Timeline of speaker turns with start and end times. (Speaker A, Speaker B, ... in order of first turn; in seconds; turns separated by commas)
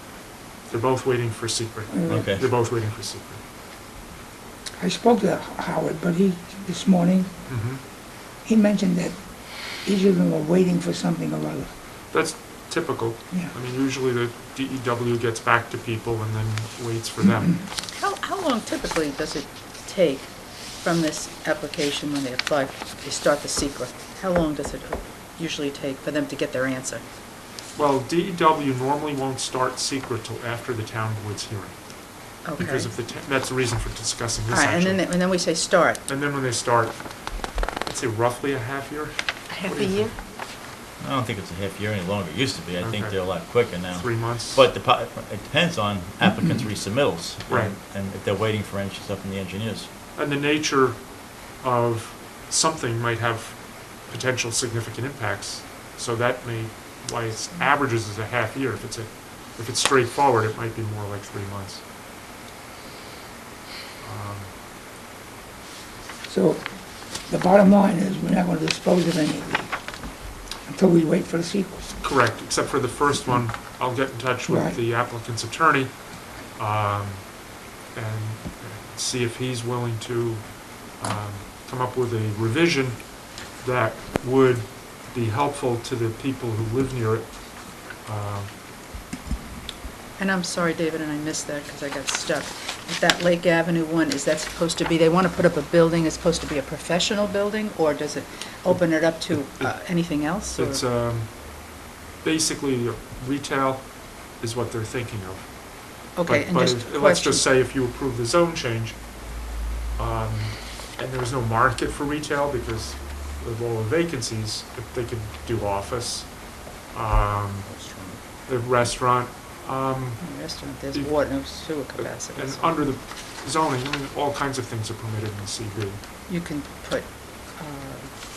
Speaker A: 0.7-3.4, Speaker B: 1.9-2.4, Speaker C: 2.1-2.5, Speaker B: 4.8-7.3, Speaker A: 7.5-7.8, Speaker B: 8.4-9.2, Speaker B: 9.8-11.7, Speaker A: 12.1-17.6, Speaker D: 17.9-27.0, Speaker A: 27.8-35.1, Speaker D: 32.4-32.9, Speaker D: 34.5-36.0, Speaker A: 36.1-40.1, Speaker D: 39.5-40.1, Speaker C: 41.0-49.9, Speaker A: 42.8-44.6, Speaker A: 47.5-47.8, Speaker A: 50.1-61.8, Speaker A: 64.0-64.5, Speaker B: 66.3-66.7, Speaker B: 67.2-69.7, Speaker B: 70.7-72.0, Speaker A: 72.0-88.5, Speaker B: 74.5-74.8, Speaker D: 90.2-100.8, Speaker A: 98.7-109.4, Speaker D: 106.2-107.5, Speaker A: 110.0-117.7, Speaker D: 117.7-118.2, Speaker A: 118.5-126.0, Speaker D: 120.2-122.9, Speaker D: 126.3-128.1